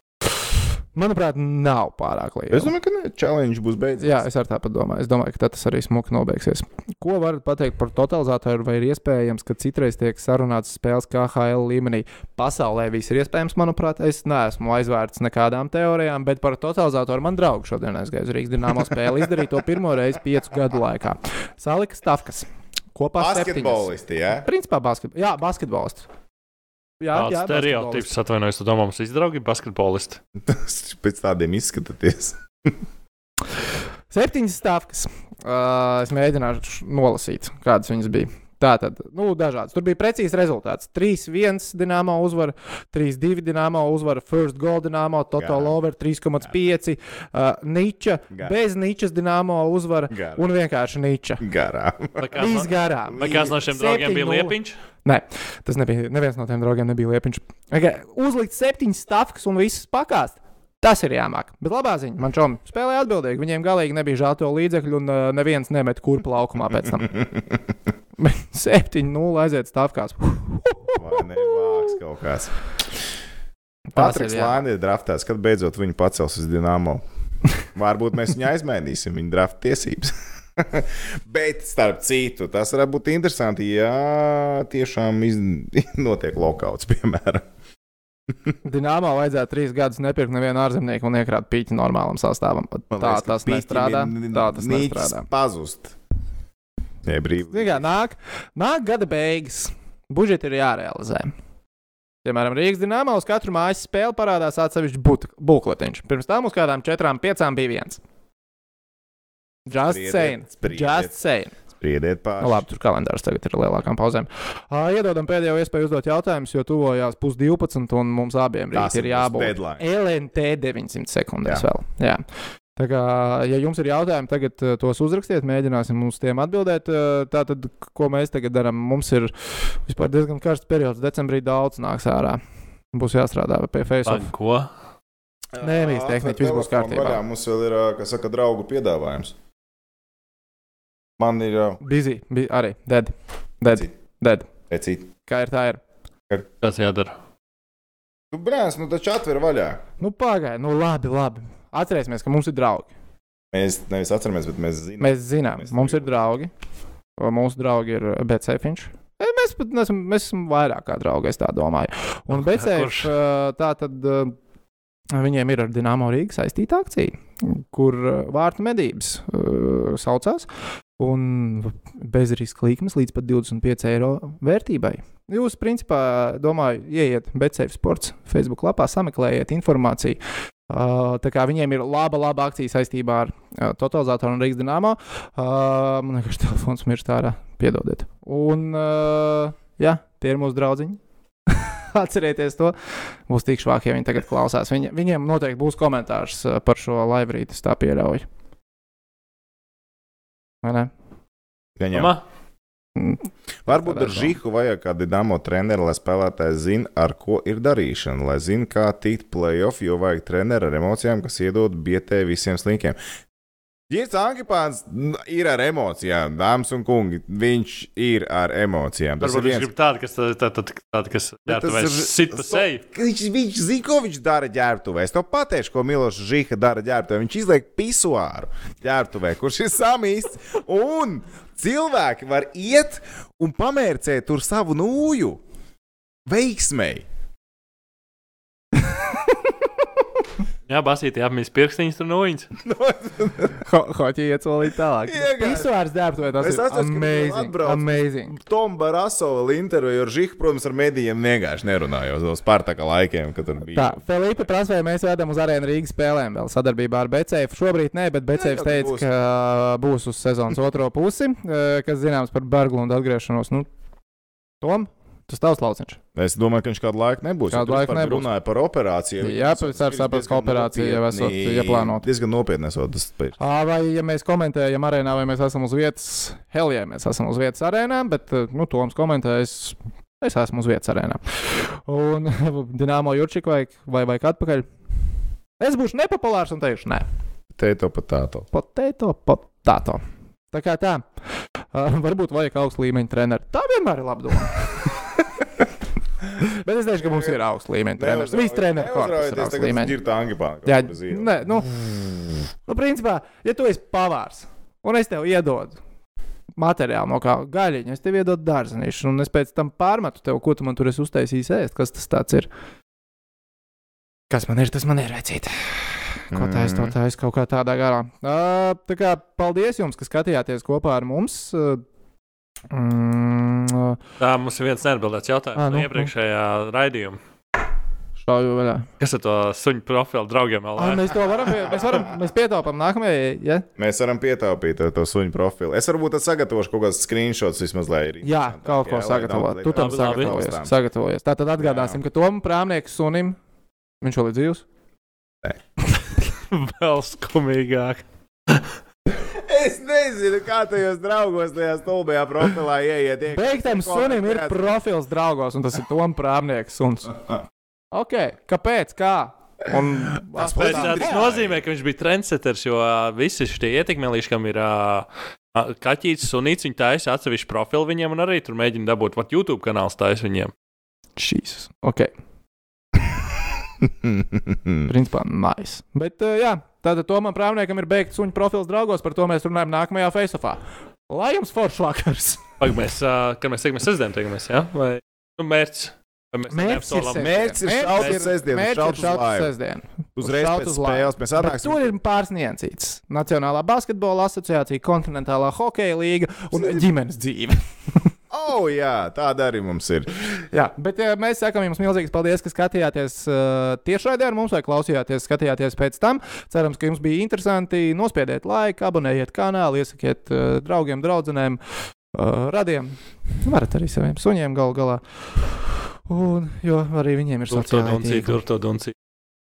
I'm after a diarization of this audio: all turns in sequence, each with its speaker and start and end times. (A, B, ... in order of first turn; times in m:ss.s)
0:00.9-0:02.7 A
0:02.5-0:04.2 B
0:04.0-0:26.1 A
0:23.2-0:24.5 B
0:27.0-0:28.1 A
0:27.1-0:30.2 C
0:30.4-0:32.7 B
0:34.1-0:51.4 A
0:45.4-0:45.7 B
0:50.1-0:50.4 B
0:51.4-0:52.4 B
0:52.2-0:54.8 C
0:52.4-1:07.2 A
0:53.1-0:53.6 B
1:08.2-1:11.8 A
1:11.0-1:12.5 B
1:13.9-1:14.6 A
1:14.0-1:17.0 B
1:17.7-1:27.4 B
1:28.6-1:35.3 A
1:32.9-1:35.9 B
1:37.0-1:37.8 B
1:37.5-1:41.3 A
1:42.2-1:48.0 A
1:49.7-1:51.5 A
1:49.8-1:51.1 B
1:51.8-1:52.6 B
1:52.4-2:02.2 A
1:58.7-1:59.8 B
2:02.8-2:12.4 A
2:12.9-2:14.3 A
2:14.0-2:14.7 C
2:15.5-2:19.3 B
2:15.6-2:17.2 A
2:21.2-2:21.8 B
2:21.8-2:24.5 A
2:24.7-2:25.1 B
2:25.2-2:25.8 A
2:26.6-2:27.1 C
2:28.3-2:29.8 B
2:30.0-2:32.9 A
2:33.5-2:36.1 B
2:35.0-2:36.5 A
2:37.2-2:44.3 A
2:42.4-2:43.1 C
2:45.1-2:50.5 A
2:51.0-3:12.7 A
3:13.3-3:18.2 A
3:20.6-3:20.9 A
3:21.8-3:22.1 B
3:21.9-3:22.2 C
3:23.0-3:24.4 A
3:23.6-3:33.0 B
3:33.9-3:39.7 B
3:39.2-3:42.8 C
3:41.5-3:55.4 B
3:56.3-3:57.0 B
4:00.7-4:02.5 C
4:02.6-4:03.6 B
4:03.6-4:08.4 A
4:05.1-4:05.7 B
4:06.4-4:14.0 B
4:13.7-4:23.7 A
4:18.3-4:19.1 B
4:24.6-4:26.0 A
4:26.1-4:33.4 B
4:27.5-4:28.3 A
4:29.2-4:32.0 A
4:33.4-4:44.7 A
4:45.6-4:47.0 A
4:47.5-4:48.5 B
4:48.5-4:51.0 A
4:51.7-4:54.9 A
4:56.4-5:00.0 A
4:57.0-4:57.4 B
4:58.0-5:01.3 B
5:00.6-5:01.7 A
5:02.7-5:05.8 A
5:06.6-5:12.5 A
5:14.3-5:21.8 A
5:16.3-5:16.9 B
5:22.7-5:24.0 A
5:24.2-5:27.2 C
5:25.6-5:26.1 A
5:28.2-5:28.9 A
5:29.0-5:31.5 C
5:30.8-5:33.6 A
5:33.8-5:40.7 B
5:38.2-5:43.4 A
5:39.8-5:40.4 C
5:41.6-5:42.0 B
5:44.0-5:44.6 A
5:45.9-5:48.6 C
5:49.1-5:54.8 B
5:53.3-5:57.2 A
5:57.9-6:01.2 A
6:00.3-6:01.6 B
6:00.4-6:10.5 C
6:11.2-6:12.1 A
6:13.8-6:14.9 B
6:14.8-6:22.4 A
6:22.6-6:28.2 C
6:26.5-6:37.6 A
6:27.2-6:29.5 B
6:30.2-6:31.9 B
6:36.5-6:36.8 B
6:38.3-6:40.1 B
6:40.5-6:51.6 A
6:52.1-6:55.0 A
6:56.1-6:58.4 A
6:57.5-6:58.9 C